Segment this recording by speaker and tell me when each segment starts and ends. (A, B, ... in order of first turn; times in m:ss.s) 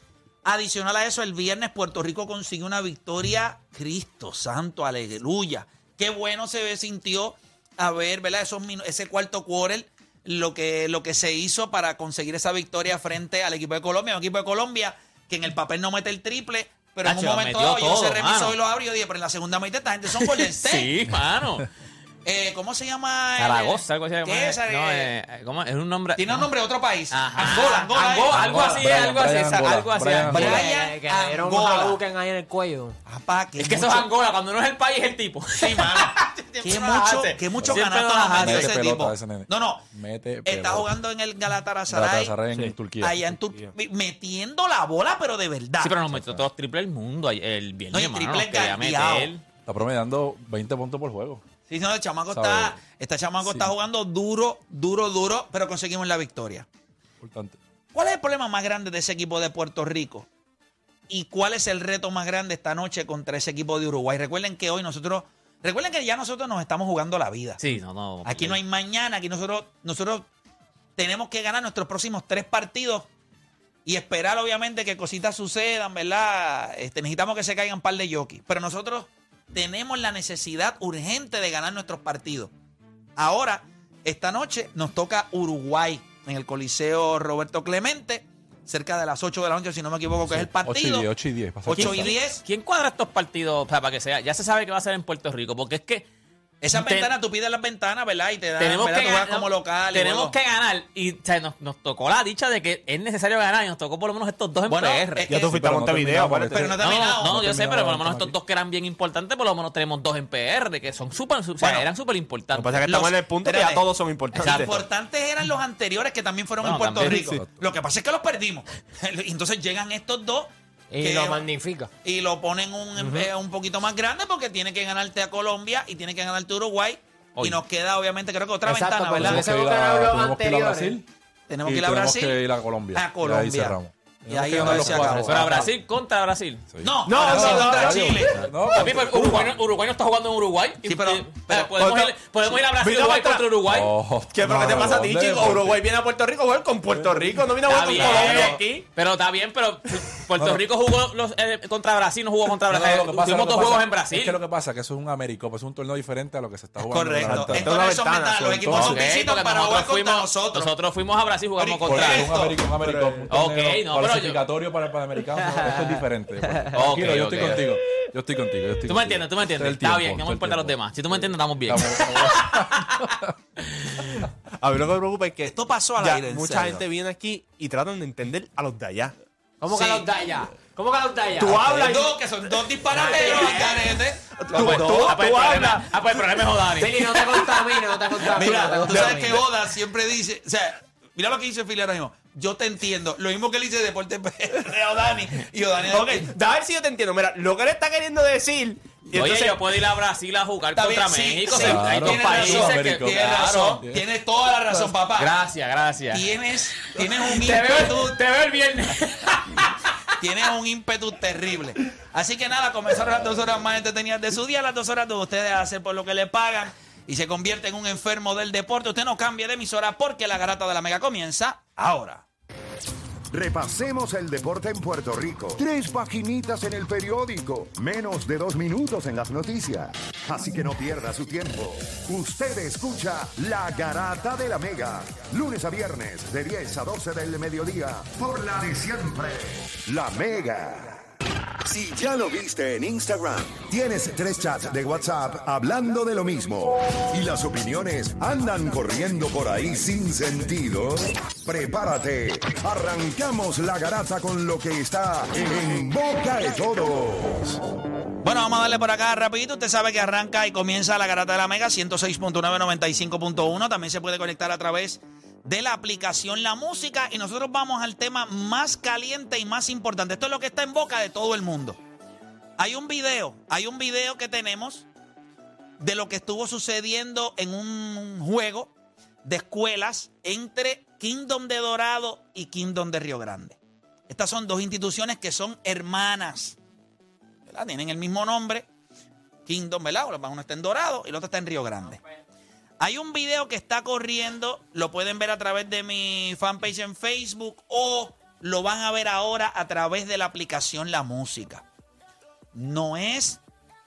0:00.4-0:20.9 A
0:17.0-0:18.6 B
0:20.2-0:21.7 B
0:22.2-0:25.1 A
0:23.4-0:26.5 B
0:26.2-0:28.9 A
0:27.1-0:30.5 B
0:28.3-0:30.6 C
0:30.2-0:32.0 A
0:30.4-0:33.0 D
0:33.0-0:34.1 A
0:33.6-0:38.8 B
0:35.6-0:39.8 A
0:37.6-0:41.0 C
0:40.4-0:42.3 A
0:41.9-0:43.4 C
0:43.0-0:46.0 A
0:45.8-0:49.4 B
0:46.1-0:46.4 C
0:47.9-0:49.3 A
0:49.6-0:51.4 C
0:51.7-0:56.6 A
0:52.3-0:52.8 C
0:53.4-0:53.7 C
0:57.2-0:57.6 C
0:57.9-1:00.3 A
1:01.1-1:07.6 A
1:07.6-1:08.6 B
1:08.2-1:10.3 A
1:11.0-1:13.1 A
1:13.8-1:22.5 A
1:23.2-1:31.1 A
1:30.3-1:32.2 C
1:31.6-1:32.4 A
1:31.8-1:36.1 B
1:36.6-1:40.3 A
1:36.7-1:37.1 B
1:38.6-1:45.3 B
1:44.7-1:45.6 A
1:45.3-1:46.8 E
1:45.4-1:48.3 C
1:46.5-1:47.3 A
1:46.8-1:52.8 B
1:51.6-1:51.9 A
1:52.5-1:54.8 E
1:52.8-2:00.5 A
1:56.6-1:57.3 B
1:57.1-1:57.4 E
2:00.9-2:01.9 D
2:01.0-2:01.4 A
2:02.0-2:09.5 A
2:03.0-2:03.3 D
2:08.6-2:11.0 D
2:09.2-2:11.0 C
2:11.5-2:12.4 A
2:11.6-2:15.7 C
2:12.9-2:15.6 A
2:14.6-2:16.6 B
2:16.7-2:19.5 C
2:16.8-2:18.4 A
2:17.0-2:19.4 E
2:18.7-2:23.9 B
2:20.8-2:21.7 A
2:21.8-2:23.6 E
2:23.6-2:25.8 C
2:24.3-2:28.9 E
2:26.9-2:27.5 C
2:27.6-2:34.4 B
2:28.0-2:28.6 A
2:32.7-2:37.7 C
2:36.9-2:40.7 A
2:37.3-2:38.9 E
2:38.6-2:39.0 C
2:38.7-2:42.4 B
2:41.6-2:42.6 A
2:41.8-2:53.3 C
2:42.8-2:43.2 E
2:43.3-2:44.4 B
2:45.4-2:46.0 D
2:46.7-2:47.7 B
2:48.8-2:53.0 B
2:54.6-2:59.1 E
2:55.4-2:56.8 A
2:59.6-3:02.0 D
2:59.7-3:00.1 A
3:01.3-3:03.5 E
3:01.7-3:05.2 A
3:03.0-3:03.8 D
3:04.4-3:05.9 E
3:04.6-3:07.5 B
3:06.8-3:09.4 D
3:08.3-3:16.3 A
3:08.4-3:09.3 E
3:15.8-3:19.6 E
3:19.1-3:23.8 B
3:20.7-3:25.3 A
3:21.5-3:24.0 C
3:25.2-3:29.8 B
3:26.1-3:28.1 A
3:30.2-3:42.2 A
3:43.3-4:01.0 F
4:01.6-4:17.6 F
4:18.2-4:31.8 A
4:32.6-4:34.9 A
4:35.8-4:38.7 A
4:39.2-4:43.6 A
4:44.1-4:46.6 A
4:47.5-4:48.6 A
4:49.4-4:52.0 A
4:52.8-5:01.6 A
5:02.5-5:03.4 A